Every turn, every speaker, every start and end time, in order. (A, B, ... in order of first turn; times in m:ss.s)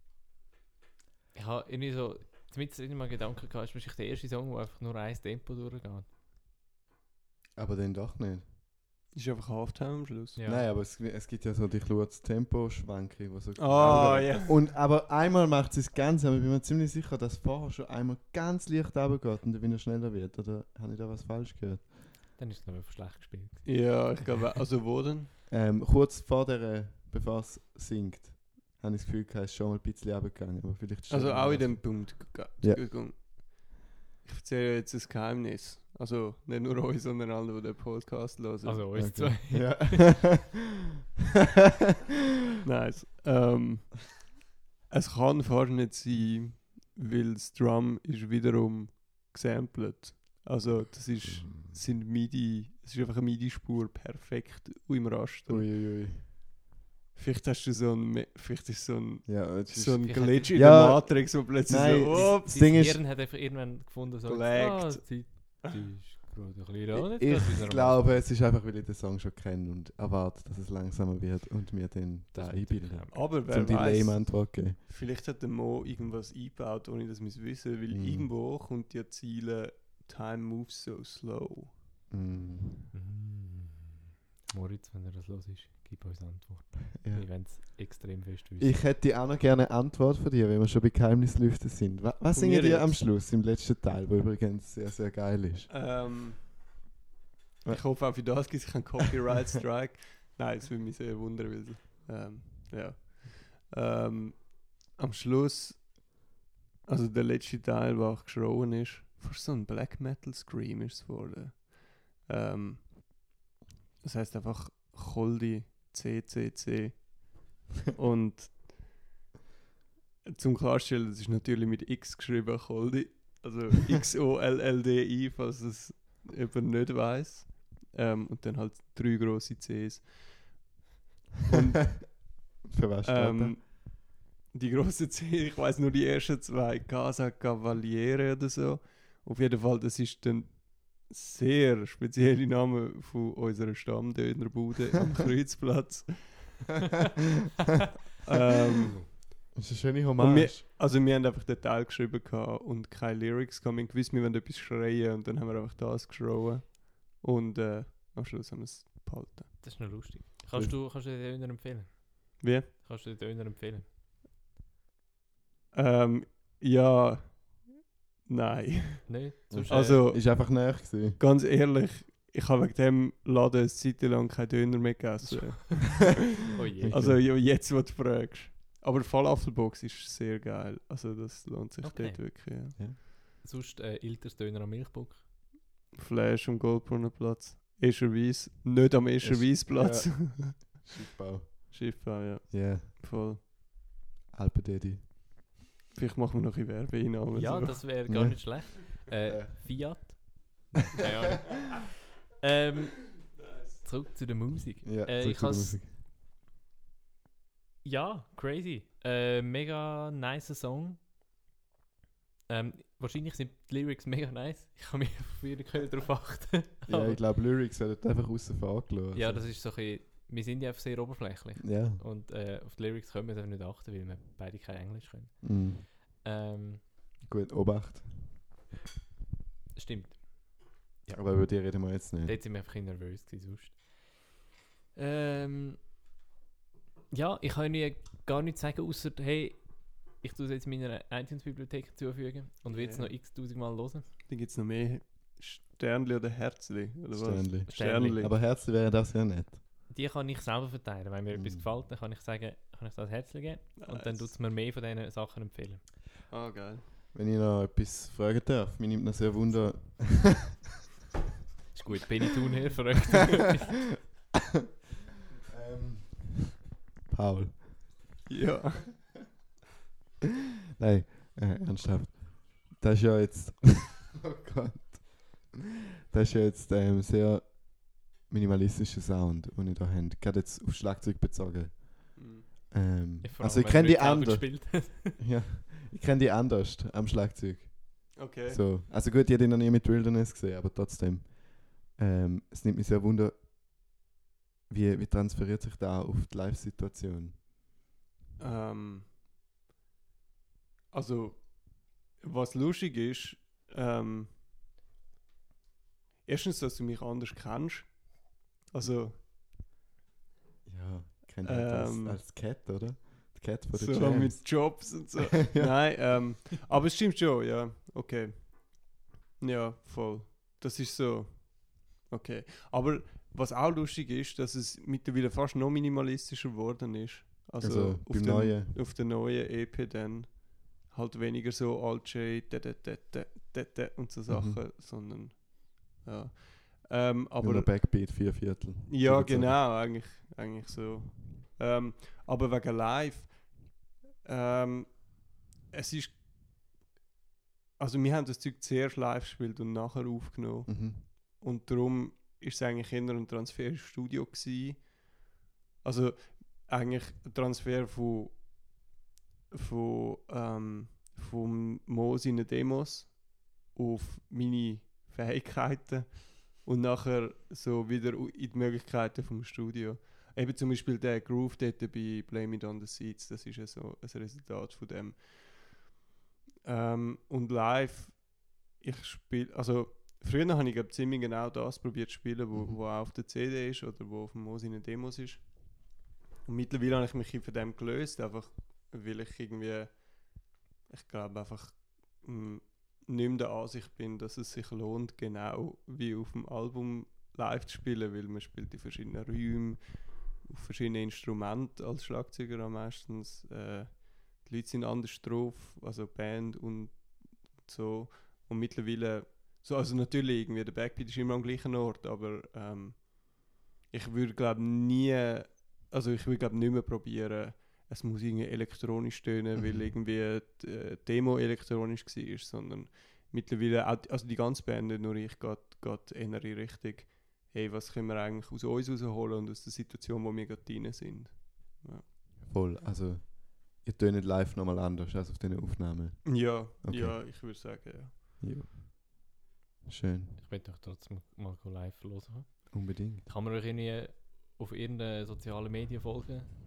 0:01.4-0:06.1 A
0:07.6-0:08.5 B
0:09.1-0:10.4 C
0:10.4-0:10.6 A
0:10.4-0:21.9 B
0:13.6-0:14.7 C
0:22.4-0:24.2 A
0:23.6-0:25.3 C
0:25.5-0:32.8 B
0:31.1-0:39.1 C
0:38.6-0:40.0 A
0:39.0-0:40.5 B
0:42.6-0:44.3 C
0:44.9-0:55.7 C
0:51.3-0:51.8 B
0:55.5-0:56.3 B
0:57.2-1:02.7 C
0:59.3-1:03.1 B
1:00.0-1:00.9 A
1:02.1-1:08.1 A
1:04.2-1:05.6 C
1:07.2-1:14.8 B
1:12.3-1:13.7 A
1:13.1-1:21.8 C
1:17.9-1:18.3 B
1:22.1-1:22.8 B
1:22.9-1:28.8 A
1:27.0-1:27.9 B
1:28.6-1:35.7 B
1:32.3-1:33.1 C
1:35.7-1:36.6 C
1:37.6-1:38.6 B
1:37.7-1:46.1 C
1:46.8-1:53.3 C
1:54.0-1:58.9 C
2:00.2-2:10.7 C
2:11.5-2:12.3 C
2:12.6-2:13.6 B
2:13.0-2:26.6 C
2:28.2-2:29.0 C
2:29.5-2:30.6 B
2:30.2-2:39.6 C
2:39.6-2:43.9 A
2:40.5-2:40.8 B
2:42.4-2:42.7 C
2:45.7-2:56.2 C
2:49.1-2:50.0 A
2:49.5-2:51.2 B
2:55.2-2:55.9 A
2:56.5-2:57.2 A
2:56.8-2:57.2 B
2:56.9-3:02.8 C
3:01.8-3:05.2 A
3:05.9-3:10.9 C
3:09.2-3:12.9 B
3:11.7-3:13.4 C
3:14.3-3:15.1 B
3:16.0-3:18.0 C
3:17.4-3:26.0 A
3:18.1-3:20.2 B
3:23.4-3:23.9 C
3:24.8-3:26.0 B
3:27.8-3:31.0 A
3:32.5-3:37.2 A
3:36.9-3:39.5 B
3:39.1-3:46.9 A
3:41.6-3:42.0 B
3:45.4-3:45.9 B
3:47.2-3:48.5 B
3:49.8-3:54.4 A
3:51.1-3:52.4 B
3:55.0-3:55.8 A
3:57.1-4:04.2 A
4:02.7-4:03.2 C
4:04.3-4:08.4 C
4:07.1-4:09.6 B
4:07.7-4:08.4 A
4:09.9-4:15.9 A
4:11.3-4:11.7 B
4:13.8-4:14.3 C
4:16.3-4:16.9 C
4:17.1-4:20.6 B
4:21.7-4:24.0 A
4:25.5-4:28.2 B
4:28.3-4:29.1 C
4:30.8-4:35.6 B
4:36.1-4:53.5 B
4:42.2-4:42.5 C
4:43.2-4:45.2 A
4:48.2-4:48.6 C
4:54.7-4:57.4 B
4:58.4-4:59.1 C
5:00.9-5:04.3 C
5:06.2-5:09.2 C
5:10.6-5:16.1 B
5:11.4-5:12.2 C
5:13.7-5:38.3 C
5:27.6-5:28.8 B
5:34.3-5:34.6 B
5:37.4-5:39.7 B
5:38.9-5:46.2 C
5:47.8-5:55.2 C
5:50.7-5:51.1 B
5:55.8-5:58.8 C
5:59.5-6:16.0 C
6:16.6-7:12.8 C
6:59.6-6:59.9 B
7:12.4-7:17.4 B
7:16.2-7:18.2 C
7:18.4-7:19.4 B
7:19.9-7:20.4 B
7:20.4-7:26.6 A
7:22.7-7:23.3 B